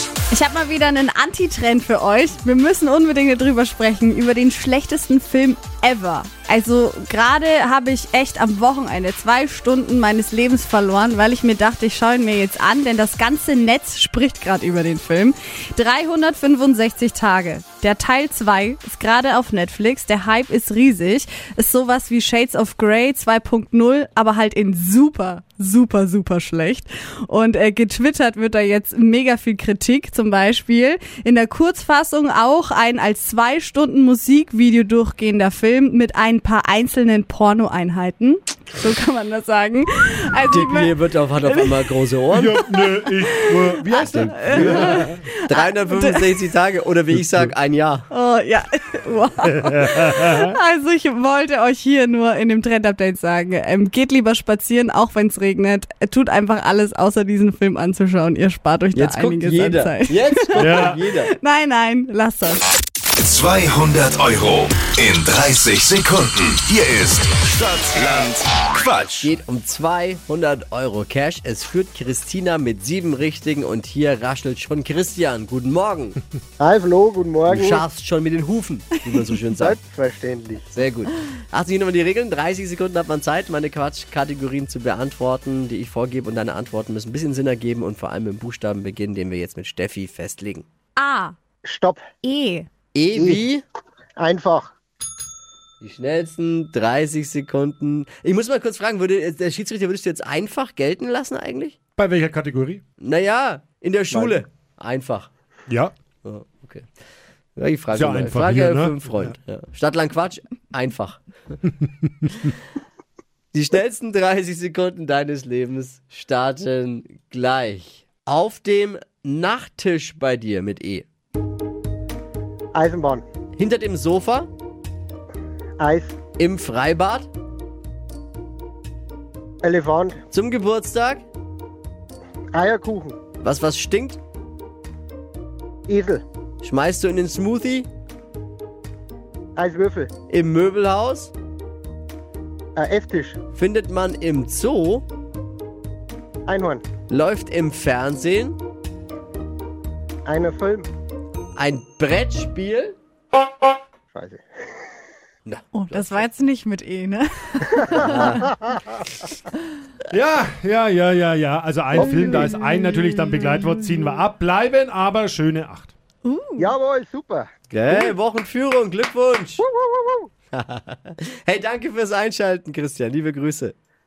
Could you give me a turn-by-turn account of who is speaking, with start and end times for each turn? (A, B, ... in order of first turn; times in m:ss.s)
0:00.3-0:41.9 A
0:40.5-0:42.6 B
0:42.3-0:45.2 C
0:42.7-0:46.3 A
0:44.1-0:48.0 B
0:48.1-1:02.7 A
0:49.7-0:50.5 C
0:58.9-1:01.3 B
1:00.6-1:00.9 C
1:03.2-1:09.3 D
1:09.2-1:16.2 B
1:16.6-1:17.8 E
1:17.5-1:19.8 B
1:19.6-1:20.7 E
1:20.7-1:30.6 B
1:31.0-1:31.3 A
1:31.6-1:32.0 E
1:32.2-1:32.7 A
1:32.9-1:33.6 B
1:33.1-1:33.4 E
1:34.2-1:34.7 E
1:35.8-1:41.8 B
1:42.0-1:42.8 C
1:43.0-1:45.3 B
1:44.1-1:44.4 E
1:46.2-1:46.8 B
1:47.6-1:51.2 B
1:47.9-1:49.3 C
1:52.0-1:52.3 C
1:53.5-2:01.0 B
2:02.7-2:03.2 E
2:03.6-2:04.5 B
2:05.8-2:06.1 E
2:06.4-2:07.3 B
2:09.6-2:10.2 E
2:10.3-2:11.2 B
2:12.5-2:13.2 E
2:13.4-2:14.2 B
2:15.9-2:16.2 E
2:16.6-2:17.9 B
2:19.6-2:20.1 E
2:20.3-2:21.3 B
2:22.8-2:23.4 E
2:23.5-2:25.0 B
2:26.5-2:26.8 E
2:27.1-2:28.6 B
2:30.2-2:30.9 E
2:31.6-2:32.9 B
2:34.1-2:34.4 E
2:35.4-2:36.2 B
2:35.7-2:38.4 A
2:38.0-2:38.5 B
2:38.0-2:38.8 E
2:40.1-2:45.9 C
2:41.9-2:43.6 B
2:46.2-2:46.7 A
2:46.6-2:47.5 E
2:47.7-2:49.6 B
2:49.6-2:50.3 E
2:50.5-2:53.7 B